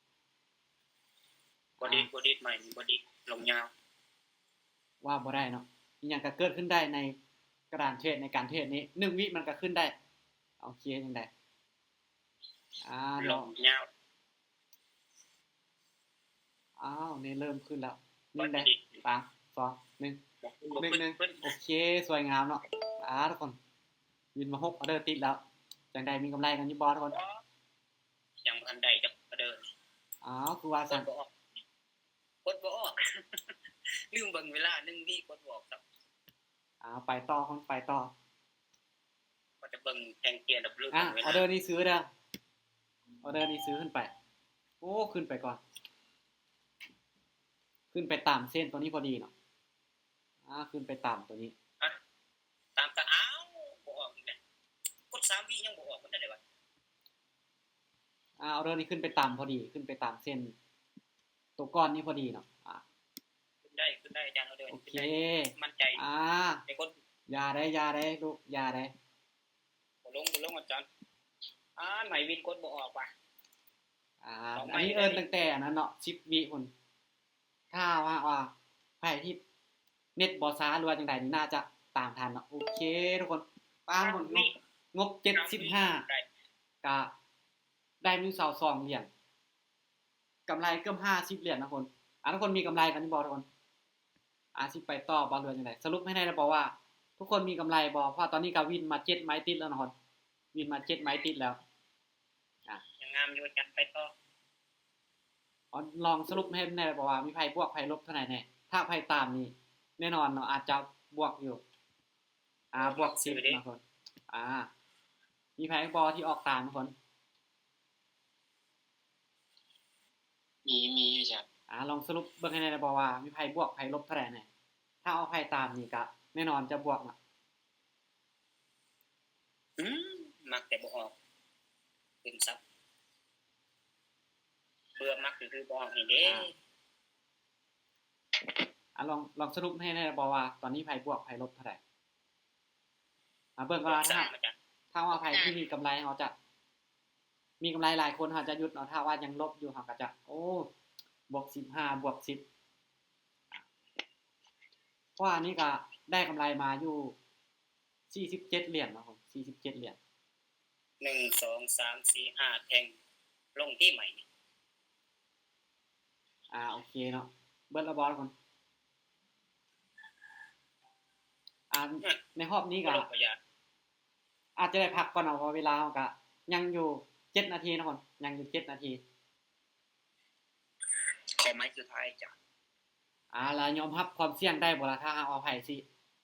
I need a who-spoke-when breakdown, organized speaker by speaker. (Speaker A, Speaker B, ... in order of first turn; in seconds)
Speaker A: 1.8-2.1, 5.0-7.2, 7.7-9.9, 10.6-11.3, 12.8-13.5, 16.8-20.2, 20.8-23.6, 24.3-25.4, 25.9-27.2, 30.2-31.1, 36.8-38.1, 40.9-42.0, 43.2-44.1, 44.8-45.6, 47.9-49.3, 50.5-51.5, 58.4-60.5, 61.6-62.8, 64.7-66.6, 67.3-68.9, 74.2-76.7, 77.7-79.4, 80.2-86.0, 86.8-87.1, 88.0-89.1, 90.5-93.5, 94.5-99.9, 100.5-101.6, 105.7-111.6, 112.7-114.7, 115.6-116.9, 121.7-124.5, 125.0-127.2, 136.2-136.5, 138.9-141.8, 143.6-144.3, 144.9-146.3, 147.6-150.7, 151.3-152.4, 155.2-157.2, 158.1-160.0, 166.5-168.3, 171.7-173.1, 174.6-179.0, 183.3-185.8
Speaker B: 1.8-3.7, 13.2-13.9, 18.4-18.8, 20.4-21.5, 27.1-27.4, 28.4-29.6, 30.9-31.3, 32.4-33.5, 34.1-35.8, 39.6-41.4, 52.8-54.4, 55.1-56.4, 63.6-66.0, 66.7-66.9, 70.0-70.9, 71.8-73.1, 74.5-75.2, 84.0-84.5, 85.3-86.2, 103.0-104.1, 112.8-113.6, 129.8-131.1, 132.2-132.6, 135.0-136.5, 143.8-144.5, 145.3-145.5, 161.0-162.9, 163.6-164.2, 172.8-173.4, 181.4-182.3